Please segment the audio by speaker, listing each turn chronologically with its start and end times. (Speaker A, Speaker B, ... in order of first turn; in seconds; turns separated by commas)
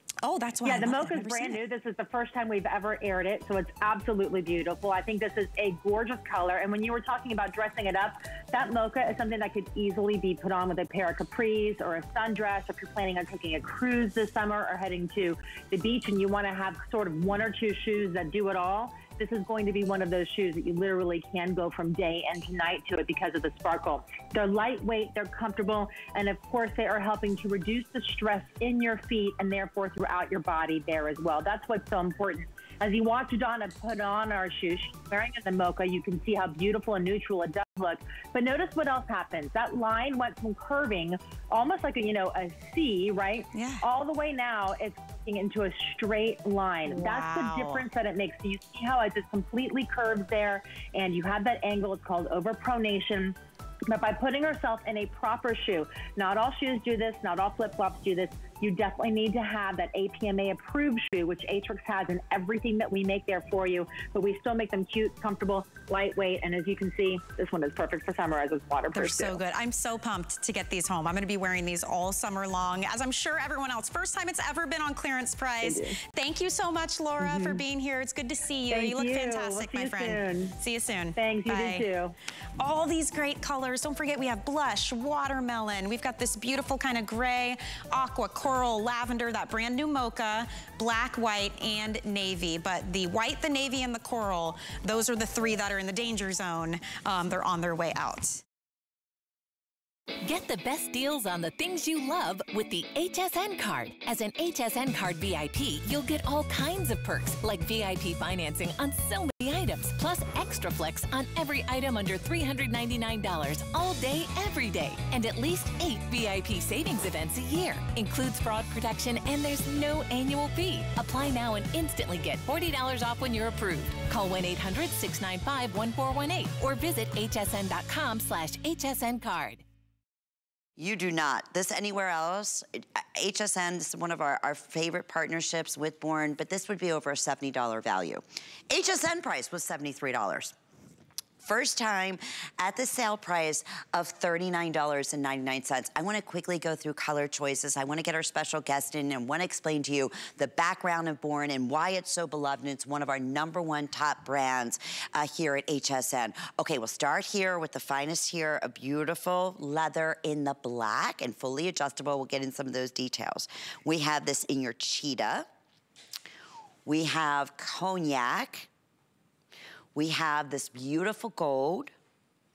Speaker A: 0.2-1.6, Speaker B: 0.6-53.4, Speaker A: 43.5-43.8, Speaker A: 46.9-47.9, Speaker B: 53.9-69.4, Speaker A: 68.9-81.8, Speaker B: 75.6-75.9, Speaker B: 77.2-77.6, Speaker B: 78.7-80.5, Speaker B: 81.2-82.1, Speaker A: 82.6-98.4, Speaker C: 100.2-129.6, Speaker D: 130.8-140.5, Speaker D: 141.4-165.5, Speaker D: 166.8-168.7, Speaker D: 169.9-171.9